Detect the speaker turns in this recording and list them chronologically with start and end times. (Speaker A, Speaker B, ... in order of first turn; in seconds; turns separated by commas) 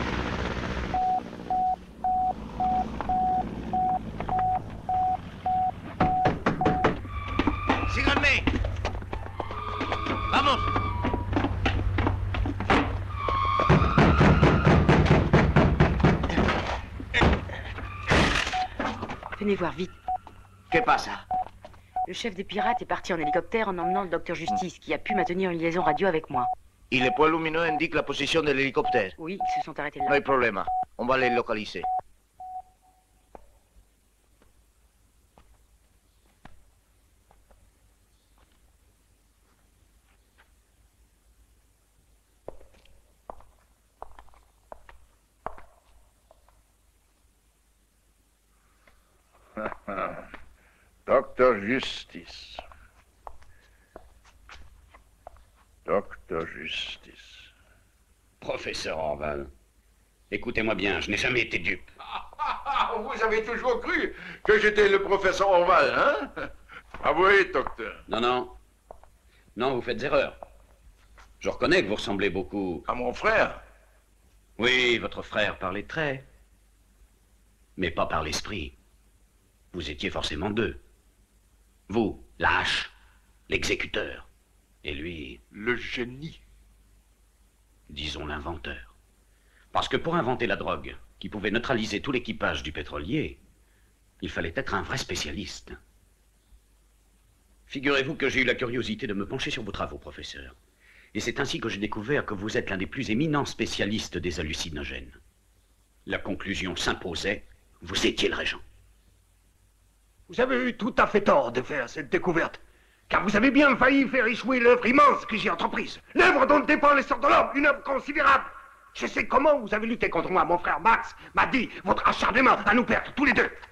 Speaker A: 7.9-8.4, Speaker A: 10.3-10.6, Speaker B: 19.4-19.9, Speaker A: 20.7-21.2, Speaker B: 22.1-26.5, Speaker A: 26.9-29.1, Speaker B: 29.2-30.2, Speaker A: 30.1-31.9, Speaker C: 49.6-50.3, Speaker C: 51.0-52.6, Speaker C: 55.9-57.5, Speaker D: 58.4-59.5, Speaker D: 60.3-61.8, Speaker C: 62.1-66.5, Speaker C: 67.0-68.0, Speaker D: 68.1-68.5, Speaker D: 69.5-70.4, Speaker D: 71.4-72.8, Speaker C: 72.9-73.6, Speaker D: 74.6-76.2, Speaker D: 77.8-78.7, Speaker D: 79.7-80.8, Speaker D: 81.9-82.9, Speaker D: 83.5-84.3, Speaker D: 84.8-85.4, Speaker C: 85.5-86.4, Speaker D: 87.9-88.9, Speaker D: 89.7-93.4, Speaker D: 94.2-95.8, Speaker D: 97.7-100.5, Speaker D: 101.1-105.2, Speaker D: 106.0-108.6, Speaker E: 110.3-123.5